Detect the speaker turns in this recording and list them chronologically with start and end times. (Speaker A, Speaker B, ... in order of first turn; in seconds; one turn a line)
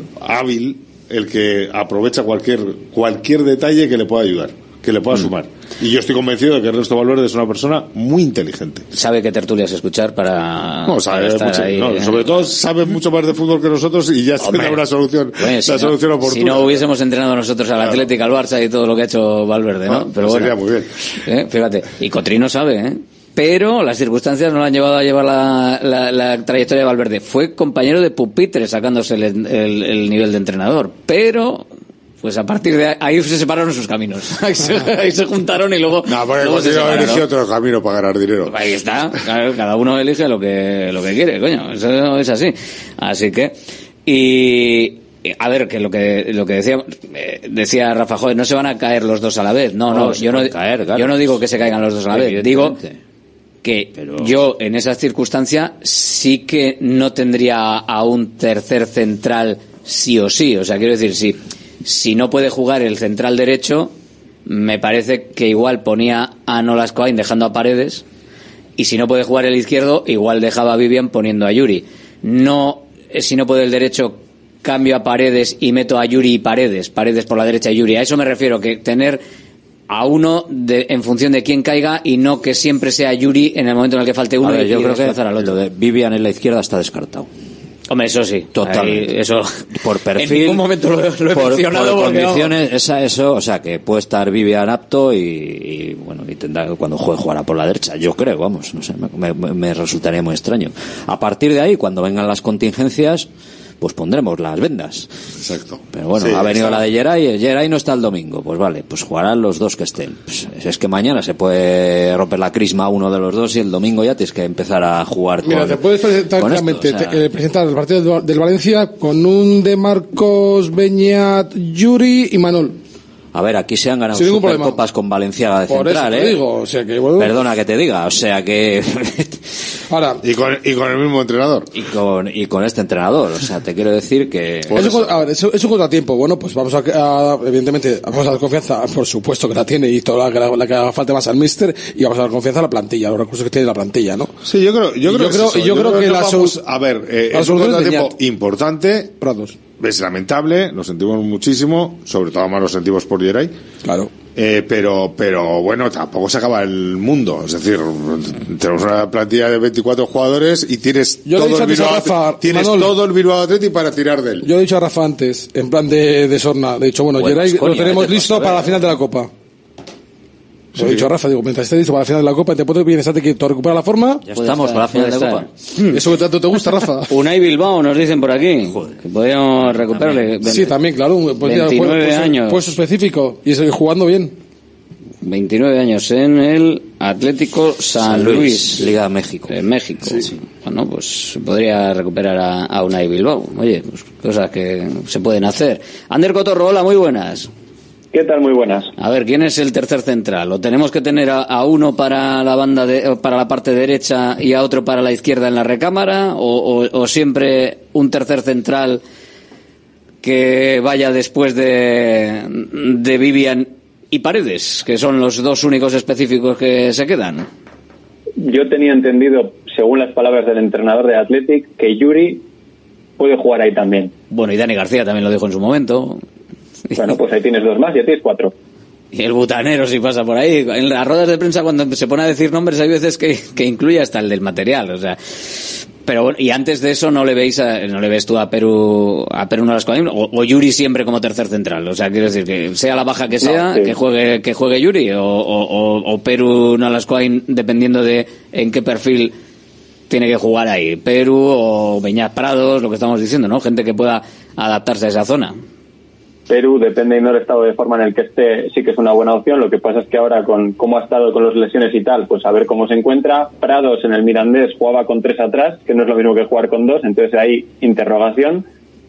Speaker A: 0.2-8.8
Speaker B: 8.9-12.4
Speaker A: 10.8-16.8
Speaker B: 14.4-14.8
Speaker B: 15.4-20.5
Speaker A: 17.8-18.1
Speaker A: 19.9-20.9
Speaker B: 21.1-31.7
Speaker B: 32.2-37.2
Speaker A: 36.0-38.5
Speaker B: 38.5-43.5
Speaker B: 44.0-52.8
Speaker C: 49.9-53.0
Speaker B: 53.6-63.9
Speaker C: 53.9-54.4
Speaker B: 64.5-68.0
Speaker B: 68.8-79.2
Speaker B: 79.9-85.6
Speaker C: 84.4-87.3
Speaker B: 87.9-92.6
Speaker C: 88.5-89.2
Speaker C: 89.7-90.7
Speaker C: 91.3-103.3
Speaker C: 103.8-105.1
Speaker A: 105.4-106.8
Speaker C: 105.9-117.3
Speaker D: 115.4-122.8
Speaker C: 123.3-126.4
Speaker D: 124.1-124.8
Speaker D: 125.7-127.4
Speaker C: 127.2-129.4
Speaker D: 129.9-130.2
Speaker A: 130.2-131.7
Speaker C: 131.7-135.2
Speaker D: 134.7-144.3
Speaker A: 144.4-149.1
Speaker D: 145.0-146.6
Speaker D: 147.3-148.2
Speaker D: 149.2-149.6
Speaker A: 149.7-153.5
Speaker D: 153.8-154.1
Speaker A: 154.3-164.4
Speaker D: 161.2-163.0
Speaker D: 164.4-169.3
Speaker C: 167.1-169.0
Speaker D: 170.7-174.2
Speaker A: 170.8-171.1
Speaker C: 174.2-175.5
Speaker B: 174.3-176.0
Speaker D: 175.9-177.1
Speaker B: 177.1-180.7
Speaker C: 178.6-179.0
Speaker C: 179.6-180.8
Speaker D: 180.4-184.3
Speaker B: 181.4-182.8
Speaker B: 185.2-188.9
Speaker C: 187.9-190.3
Speaker B: 189.5-197.5
Speaker E: 198.1-198.9
Speaker B: 199.0-209.0
Speaker B: 210.2-217.5
Speaker E: 218.4-222.4
Speaker E: 223.2-224.1
Speaker B: 224.3-226.2
Speaker B: 226.9-227.2
Speaker E: 226.9-228.5
Speaker B: 229.1-249.3
Speaker E: 243.4-243.9
Speaker B: 250.1-255.5
Speaker E: 256.5-268.6